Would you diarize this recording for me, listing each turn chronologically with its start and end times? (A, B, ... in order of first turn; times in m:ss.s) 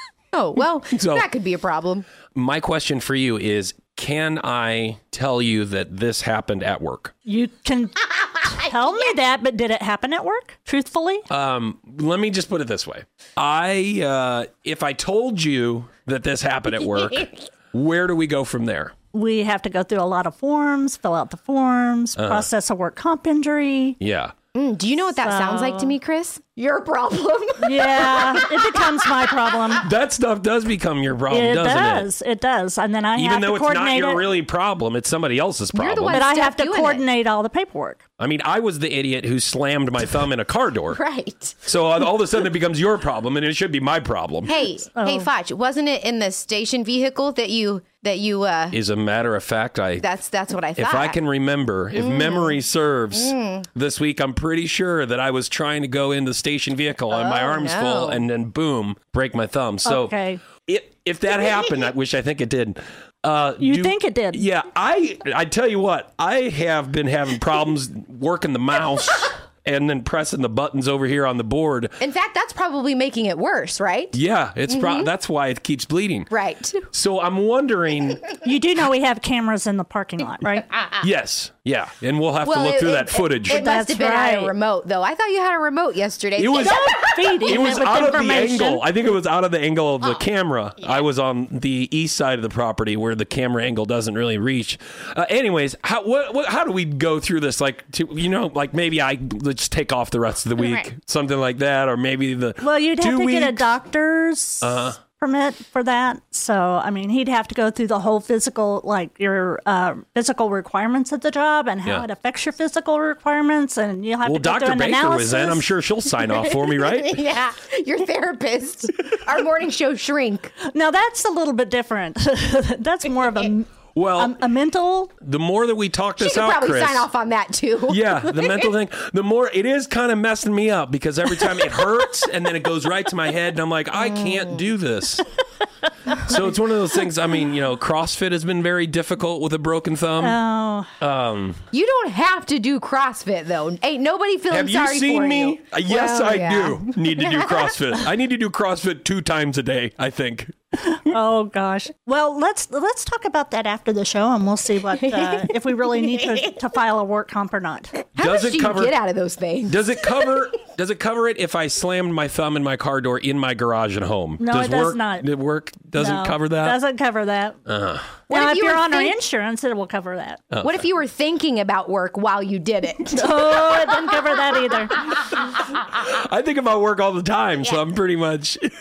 0:00.3-0:02.1 A
0:00.9-0:01.3 B
0:02.3-0:07.1 B
0:07.3-0:11.2 C
0:11.3-0:18.9 B
0:19.1-0:24.0 C
0:22.2-0:22.5 B
0:24.0-0:24.3 B
0:24.5-0:29.7 A
0:25.2-0:26.0 C
0:27.6-0:29.9 C
0:29.8-0:32.1 B
0:31.3-0:34.3 C
0:33.2-0:36.3 B
0:35.7-0:37.0 A
0:36.1-0:38.0 C
0:38.2-0:41.0 B
0:40.9-0:41.6 A
0:41.6-0:44.5 B
0:44.5-0:48.8 A
0:44.5-0:45.3 C
0:48.7-0:50.1 B
0:50.0-0:51.2 A
0:50.8-1:11.9 B
0:52.0-0:52.6 A
0:53.1-0:53.7 A
0:57.1-0:58.3 A
0:59.9-1:00.4 C
1:03.6-1:04.4 C
1:12.0-1:14.2 A
1:14.1-1:16.3 B
1:14.7-1:15.1 A
1:16.3-1:16.9 A
1:16.9-1:18.3 B
1:18.4-1:20.7 C
1:21.0-1:23.7 B
1:22.4-1:28.0 A
1:23.5-1:24.5 C
1:26.4-1:43.7 B
1:26.6-1:28.8 C
1:42.6-1:55.7 C
1:44.6-1:45.0 B
1:54.2-1:57.2 B
1:56.2-2:00.5 A
2:00.6-2:05.1 C
2:03.9-2:04.4 B
2:05.2-2:07.1 B
2:06.2-2:08.7 A
2:07.9-2:15.3 B
2:14.0-2:14.6 A
2:16.1-2:20.4 B
2:20.2-2:20.9 C
2:21.0-2:21.6 B
2:21.7-2:27.8 A
2:24.5-2:31.0 B
2:30.9-2:38.0 C
2:35.0-2:35.5 A
2:38.2-2:39.8 A
2:38.2-2:39.0 B
2:39.7-2:46.8 B
2:44.4-2:45.3 C
2:46.0-2:47.6 C
2:47.7-2:48.1 B
2:48.3-2:49.2 A
2:48.3-2:50.4 C
2:50.5-2:50.8 B
2:50.6-2:53.8 A
2:53.1-2:55.0 C
2:55.5-2:58.6 B